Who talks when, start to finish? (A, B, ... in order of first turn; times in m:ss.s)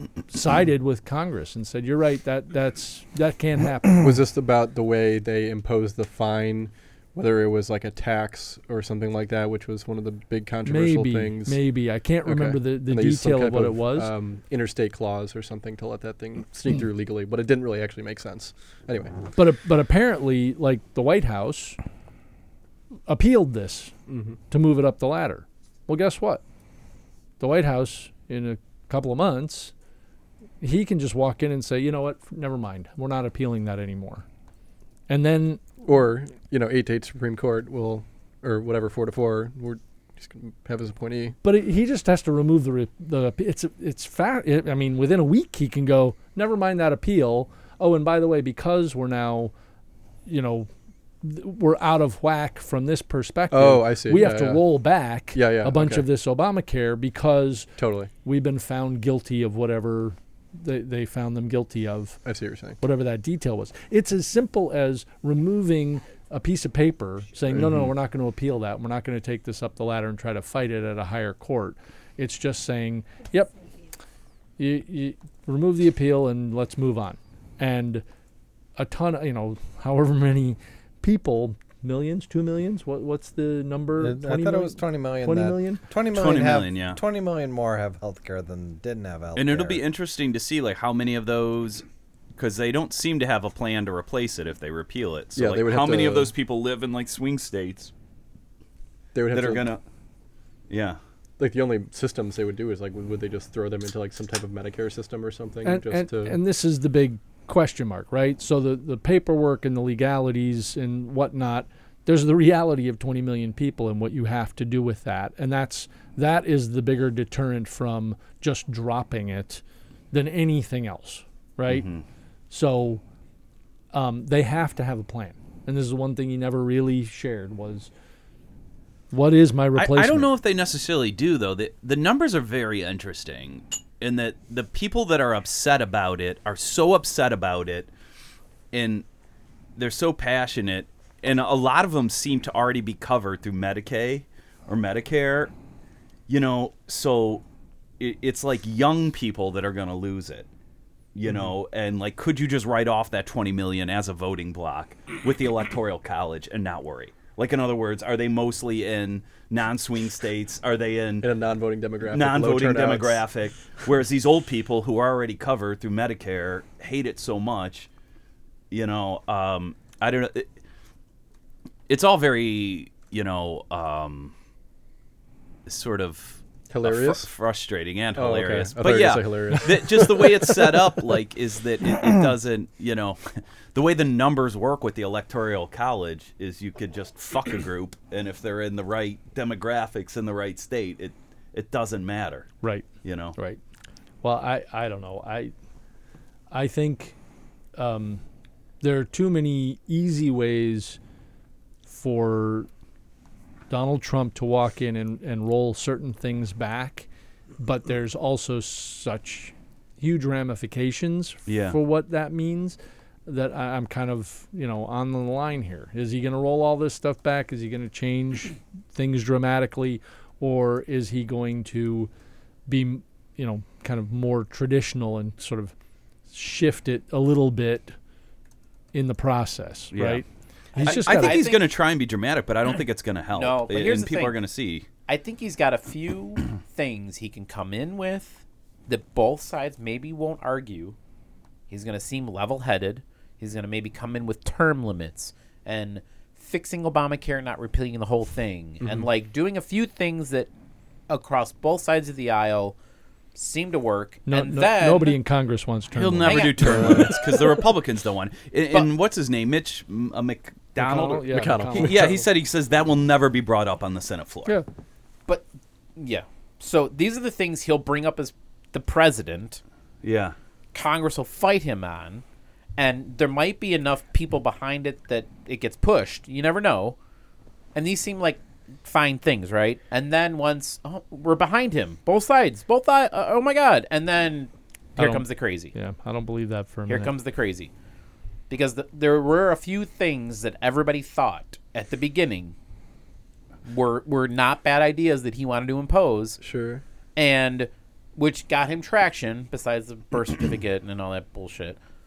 0:00.3-0:04.0 A
0:04.0-0:11.6 B
0:10.6-0:14.1 A
0:12.2-0:19.2 B
0:19.4-0:21.8 A
0:23.1-0:23.9 A
0:24.1-0:24.4 B
0:24.5-0:26.4 A
0:27.4-0:29.7 A
0:30.6-0:34.3 A
0:35.1-0:35.6 A
0:35.8-0:41.4 B
0:41.4-0:49.5 A
0:50.3-0:50.7 A
0:51.2-0:57.7 A
0:53.5-0:54.7 B
0:55.3-0:56.0 B
0:57.8-0:58.1 B
0:58.2-1:02.2 A
1:02.2-1:02.8 B
1:02.8-1:13.5 A
1:07.5-1:07.9 B
1:14.6-1:18.0 A
1:18.8-1:25.8 A
1:24.0-1:29.8 C
1:26.1-1:27.0 D
1:29.4-1:31.8 D
1:32.4-1:37.9 D
1:35.4-1:36.3 B
1:39.1-1:39.7 B
1:39.3-1:39.8 D
1:40.7-1:41.0 D
1:41.4-1:46.4 B
1:45.6-2:01.8 A
2:01.7-2:02.0 D
2:02.5-2:03.0 A
2:03.9-2:07.9 A
2:09.1-2:10.3 A
2:09.8-2:17.9 D
2:18.7-2:19.0 D
2:19.8-2:25.5 D
2:26.3-2:27.4 D
2:28.0-2:30.5 D
2:31.1-2:41.3 D
2:31.3-2:31.5 B
2:41.2-2:43.2 B
2:42.0-2:47.9 D
2:48.7-2:50.5 D
2:51.9-2:54.3 D
2:55.6-3:12.5 D
2:56.7-2:57.3 B
2:58.1-3:00.8 B
3:12.6-3:13.6 A
3:13.0-3:13.4 D
3:14.2-3:15.5 A
3:16.5-3:17.2 A
3:17.8-3:18.2 A
3:18.8-3:21.0 A
3:21.9-3:22.7 A
3:23.7-3:27.1 A
3:27.6-3:42.1 A
3:31.4-3:31.8 D
3:42.7-3:45.7 A
3:46.3-3:48.0 A
3:48.9-3:51.4 A
3:49.9-3:50.2 D
3:50.8-3:51.7 E
3:50.8-3:54.9 D
3:53.3-3:54.4 E
3:55.1-4:01.0 E
4:01.7-4:10.5 E
4:11.1-4:12.8 E
4:13.3-4:15.2 E
4:14.3-4:17.5 A
4:15.9-4:24.6 D
4:16.2-4:17.2 E
4:20.8-4:22.2 A
4:21.3-4:22.2 B
4:25.3-4:29.6 E
4:30.0-4:30.4 D
4:30.7-4:32.2 E
4:32.8-4:37.0 E
4:37.7-4:45.7 E
4:45.0-4:47.1 A
4:46.9-4:47.7 E
4:48.5-4:52.6 E
4:53.6-4:56.4 E
4:56.4-4:56.8 B
4:57.2-5:01.8 E